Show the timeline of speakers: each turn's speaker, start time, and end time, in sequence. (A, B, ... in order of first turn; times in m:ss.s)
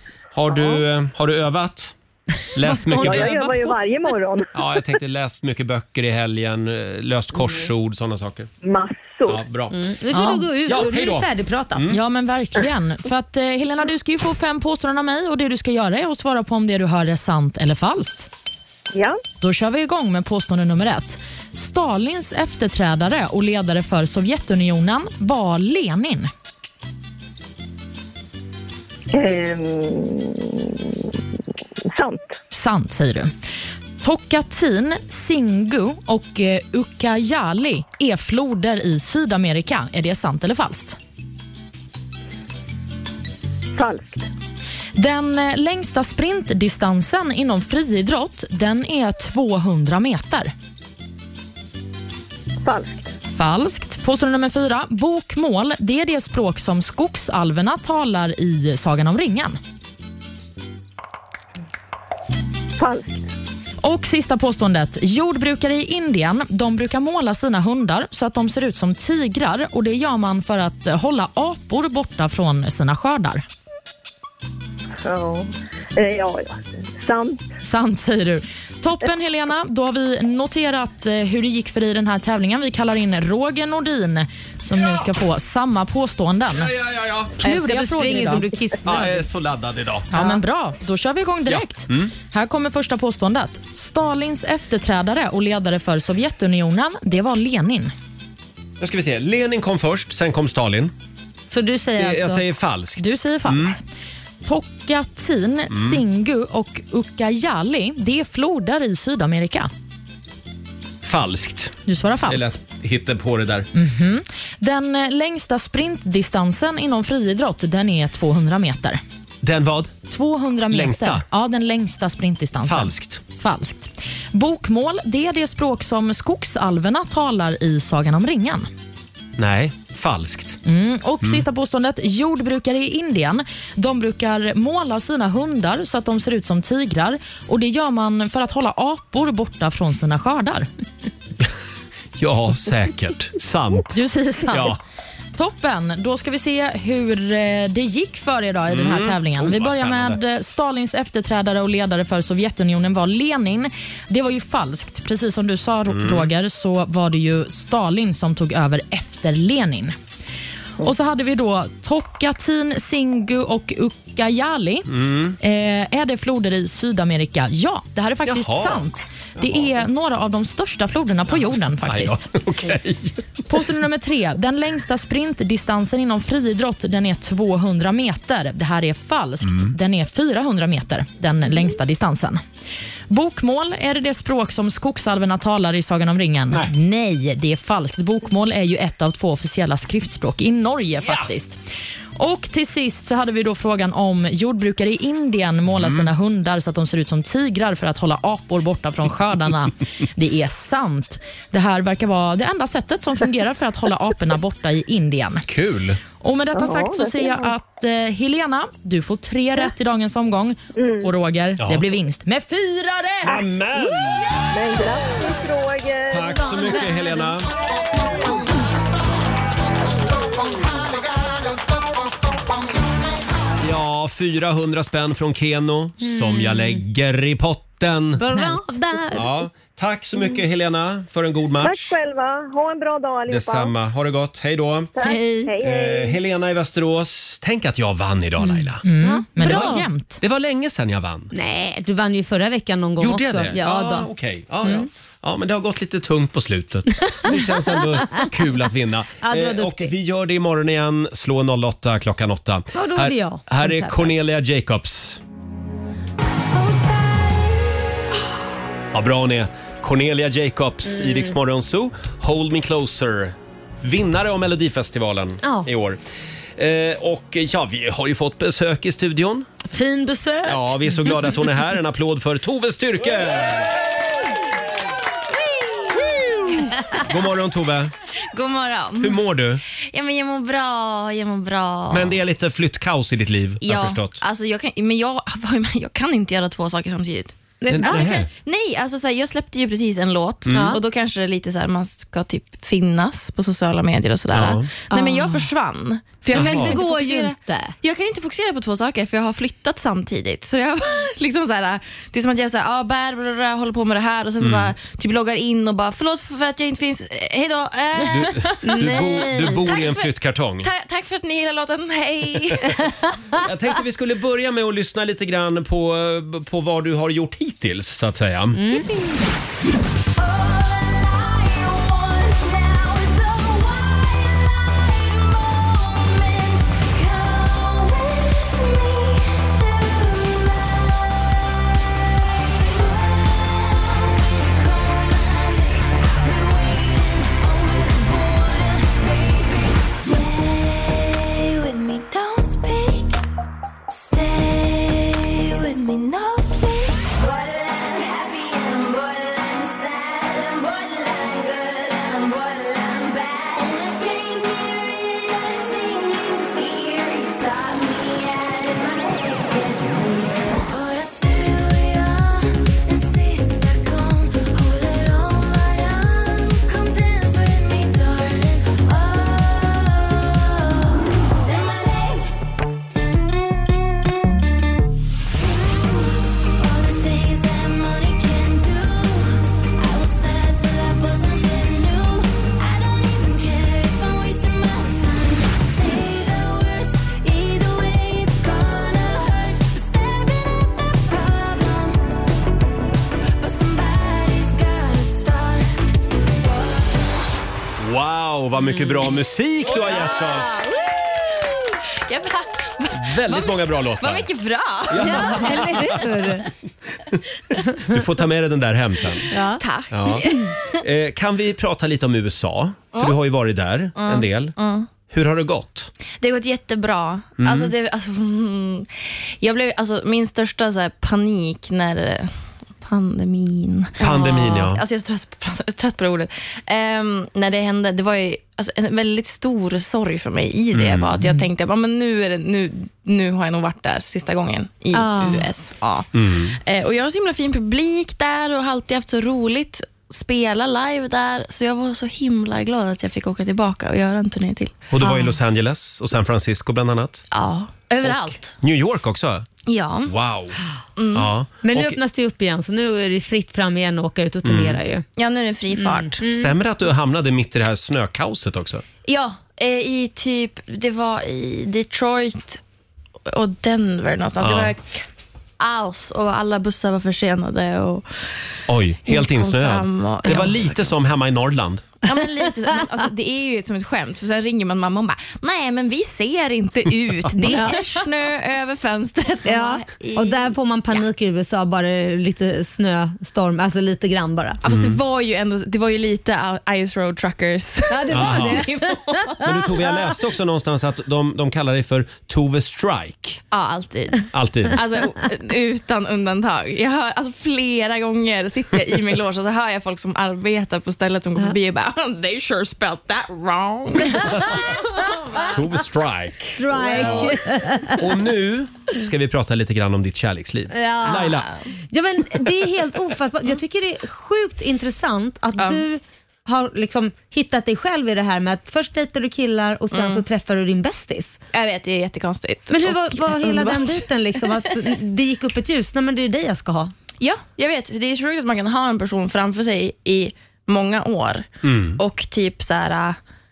0:00.3-0:01.9 A
0:02.5-0:03.7 A
0:02.6-0:03.7 B
0:02.9-0:04.5 C
0:04.5-0:08.5 A
0:08.6-0:09.4 C
0:09.3-0:09.8 A
0:09.7-0:11.9 B
0:10.1-0:10.4 D
0:10.7-0:12.0 A
0:11.9-0:18.3 D
0:18.9-0:19.2 C
0:19.4-0:26.3 D
0:29.1-0:31.2 C
0:31.9-0:32.4 C
0:32.5-0:33.3 D
0:34.0-0:41.0 D
0:43.8-0:44.3 C
0:44.9-0:50.5 D
0:52.6-0:53.1 C
0:53.4-0:59.6 D
1:02.8-1:03.3 C
1:03.8-1:13.4 D
1:15.0-1:17.5 C
1:17.6-1:26.7 D
1:26.5-1:27.4 A
1:27.4-1:28.4 D
1:27.4-1:29.2 B
1:28.8-1:30.1 A
1:30.1-1:37.9 D
1:31.5-1:32.1 A
1:38.8-1:40.9 A
1:41.5-1:42.4 B
1:42.0-1:43.7 A
1:43.0-1:43.8 D
1:44.4-1:49.7 D
1:45.7-1:46.0 A
1:51.0-1:51.7 A
1:51.8-1:52.5 D
1:52.3-1:53.7 A
1:53.7-1:59.0 D
1:59.4-2:00.0 A
2:00.1-2:08.7 D
2:00.7-2:01.2 A
2:02.6-2:03.2 A
2:09.4-2:10.6 A
2:10.6-2:20.7 D
2:22.2-2:24.0 A
2:23.9-2:24.8 D
2:24.5-2:24.8 A
2:25.4-2:39.9 D
2:28.7-2:30.2 A
2:35.9-2:36.3 A
2:40.8-2:52.3 D
2:44.9-2:45.4 A
2:48.2-2:48.8 A
2:49.4-2:49.7 A
2:51.8-2:53.2 A
2:53.5-3:02.4 D
3:03.1-3:11.6 D
3:12.2-3:25.4 D
3:15.7-3:16.1 A
3:25.5-3:26.0 A
3:26.2-3:33.4 D
3:26.5-3:27.5 C
3:30.8-3:31.1 C
3:33.2-3:34.2 A
3:34.5-3:36.8 C
3:36.1-3:37.5 A
3:43.6-3:48.2 A
3:46.0-3:46.8 B
3:48.2-3:49.3 B
3:48.3-3:48.6 D
3:49.1-3:51.9 A
3:51.6-3:53.7 C
3:53.3-3:54.9 A
3:55.0-3:56.2 C
3:55.0-3:55.5 B
3:55.6-3:58.8 A
3:58.4-3:59.9 B
3:58.8-4:00.2 D
3:59.4-4:01.3 A
4:01.3-4:04.1 B
4:03.0-4:15.2 A
4:04.6-4:04.9 B
4:07.2-4:07.8 B
4:09.2-4:09.9 B
4:12.7-4:14.1 B
4:16.5-4:17.6 E
4:18.9-4:26.0 A
4:20.9-4:21.3 B
4:25.4-4:25.7 B
4:26.6-4:29.5 A
4:29.7-4:31.1 B
4:30.4-4:33.7 A
4:36.9-4:37.9 A
4:38.3-4:39.2 F
4:39.0-4:39.6 A
4:39.9-4:42.2 F
4:41.9-4:44.2 A
4:43.6-5:10.1 F
4:47.6-4:48.2 B
4:47.7-4:48.3 A
4:50.5-4:50.8 A
4:50.5-4:50.8 B
4:54.3-4:54.7 A
4:54.9-4:55.4 B
4:56.3-4:57.7 B
4:56.3-4:56.7 A
5:04.4-5:04.7 A
5:08.1-5:10.7 A
5:08.6-5:09.7 B
5:10.6-5:12.9 F
5:13.4-5:18.6 A
5:18.5-5:18.9 B
5:20.2-5:31.5 E
5:32.5-5:43.2 E
5:43.9-6:12.3 E
6:15.4-6:32.1 E
6:33.4-6:35.8 E
6:36.4-6:37.2 E
6:37.8-6:40.6 A
6:38.6-6:39.1 B
6:39.9-6:41.4 F
6:42.1-6:46.0 F
6:42.9-6:44.3 A
6:44.9-6:46.3 A
6:45.0-6:46.5 B
6:47.9-6:49.3 A
6:49.3-6:49.6 B
6:49.5-6:50.5 F
6:49.9-6:50.3 A
6:50.8-6:55.9 A
6:53.9-6:54.9 F
6:56.2-7:24.8 F
6:57.4-6:57.7 A
7:04.0-7:04.8 A
7:10.7-7:11.2 A
7:15.0-7:15.2 D
7:16.1-7:16.6 A
7:24.9-7:27.2 A
7:27.3-7:28.5 F
7:28.0-7:29.5 A
7:29.6-7:30.1 F
7:30.1-7:30.6 A
7:31.0-7:31.3 F
7:31.1-7:32.0 A
7:31.6-7:35.0 B
7:34.4-7:34.8 A
7:35.2-7:36.2 F
7:35.7-7:36.5 B
7:36.2-7:38.8 A
7:39.0-7:42.6 F
7:43.3-7:45.0 F
7:44.4-7:44.7 A
7:45.6-7:48.1 F
7:48.7-7:51.9 A
7:49.0-7:51.1 F
7:52.0-8:01.0 F
7:57.4-7:58.0 B
7:59.4-8:04.6 B
8:04.6-8:09.5 F
8:04.7-8:05.0 A
8:07.9-8:09.9 B
8:08.1-8:08.6 A
8:09.4-8:13.4 A
8:13.5-8:24.7 F
8:14.3-8:14.8 A
8:24.1-8:24.4 B
8:25.0-8:25.5 B
8:25.4-8:27.4 A
8:26.6-8:28.2 B
8:27.0-8:27.2 F
8:28.0-8:31.5 A
8:30.7-8:31.4 B
8:31.2-8:31.6 F
8:31.9-8:41.4 B
8:35.6-8:35.8 F
8:39.9-8:40.2 F
8:41.5-8:44.9 F
8:42.7-8:46.9 B
8:47.2-8:53.2 F
8:51.6-8:52.0 A